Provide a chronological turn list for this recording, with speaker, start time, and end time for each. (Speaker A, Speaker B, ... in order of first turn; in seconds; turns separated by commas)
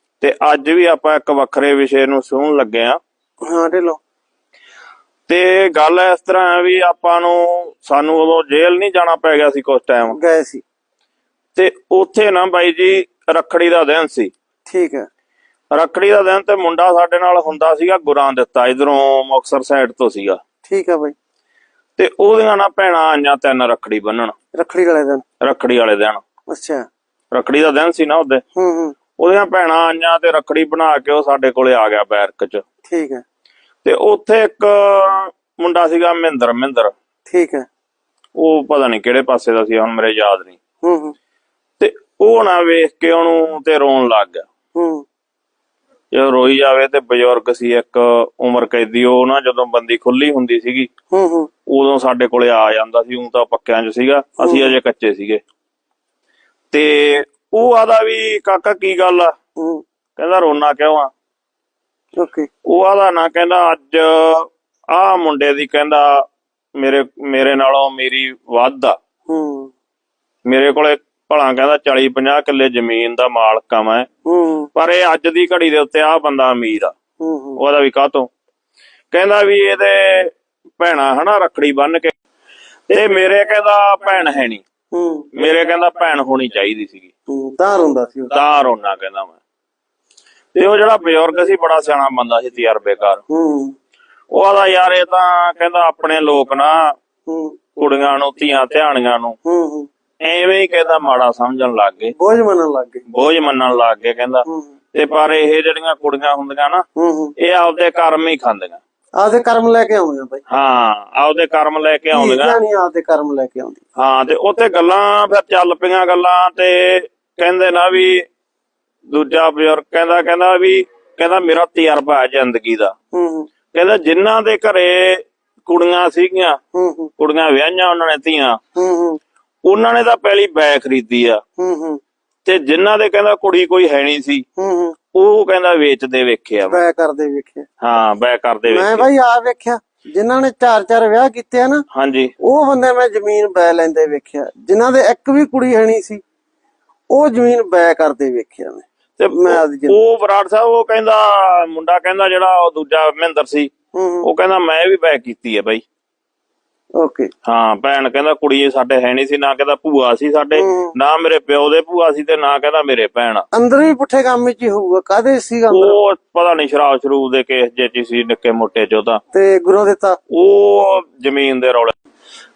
Speaker A: 0.2-3.0, Speaker B: 3.5-4.0, Speaker A: 5.3-10.2, Speaker B: 10.1-10.6, Speaker A: 11.6-14.3, Speaker B: 14.7-15.1, Speaker A: 15.7-20.4, Speaker B: 20.7-21.1, Speaker A: 22.0-24.4, Speaker B: 24.5-25.2, Speaker A: 25.4-26.2, Speaker B: 26.5-26.9, Speaker A: 27.3-28.4, Speaker B: 28.6-29.0, Speaker A: 29.2-32.6, Speaker B: 32.9-33.2, Speaker A: 33.8-36.9, Speaker B: 37.3-37.7, Speaker A: 38.4-40.6, Speaker B: 40.8-41.1, Speaker A: 41.8-44.5, Speaker B: 44.8-45.0, Speaker A: 46.1-50.9, Speaker B: 51.1-51.5, Speaker A: 51.7-55.4, Speaker B: 54.4-54.8, Speaker A: 56.7-59.3, Speaker B: 59.6-59.8, Speaker A: 60.2-61.1, Speaker B: 62.2-62.5, Speaker A: 62.7-66.2, Speaker A: 66.8-69.0, Speaker B: 69.3-69.7, Speaker A: 70.5-74.1, Speaker B: 74.3-74.7, Speaker A: 74.8-76.9, Speaker B: 77.2-77.6, Speaker A: 77.6-78.3, Speaker A: 79.1-82.1, Speaker A: 82.9-84.6, Speaker B: 84.9-85.3, Speaker A: 85.3-87.1, Speaker B: 87.3-88.3, Speaker A: 88.3-89.4, Speaker A: 90.5-93.2, Speaker B: 93.3-93.7, Speaker A: 94.3-96.9, Speaker B: 97.3-97.6, Speaker A: 97.8-99.4, Speaker B: 99.5-99.9, Speaker A: 100.2-102.1, Speaker B: 102.2-103.1, Speaker A: 103.1-106.8, Speaker B: 107.0-107.3, Speaker A: 107.4-108.8, Speaker B: 109.2-110.4, Speaker A: 110.5-112.6, Speaker B: 112.1-113.8, Speaker A: 114.0-118.2, Speaker A: 119.1-122.9, Speaker B: 123.1-123.5, Speaker A: 123.7-126.6, Speaker B: 126.7-127.1, Speaker A: 127.2-128.6, Speaker B: 128.8-129.2, Speaker A: 129.7-131.4, Speaker B: 131.6-132.0, Speaker A: 132.4-134.4, Speaker B: 134.6-135.0, Speaker A: 135.1-136.8, Speaker B: 136.6-137.7, Speaker A: 137.8-139.1, Speaker B: 138.7-141.8, Speaker A: 141.9-142.3, Speaker B: 142.4-146.2, Speaker B: 147.1-150.0, Speaker A: 149.2-153.7, Speaker B: 153.9-154.3, Speaker A: 154.2-155.8, Speaker B: 157.0-157.3, Speaker A: 157.5-163.4, Speaker B: 160.6-160.9, Speaker B: 163.5-166.0, Speaker A: 165.7-169.2, Speaker B: 169.3-170.2, Speaker A: 170.3-171.9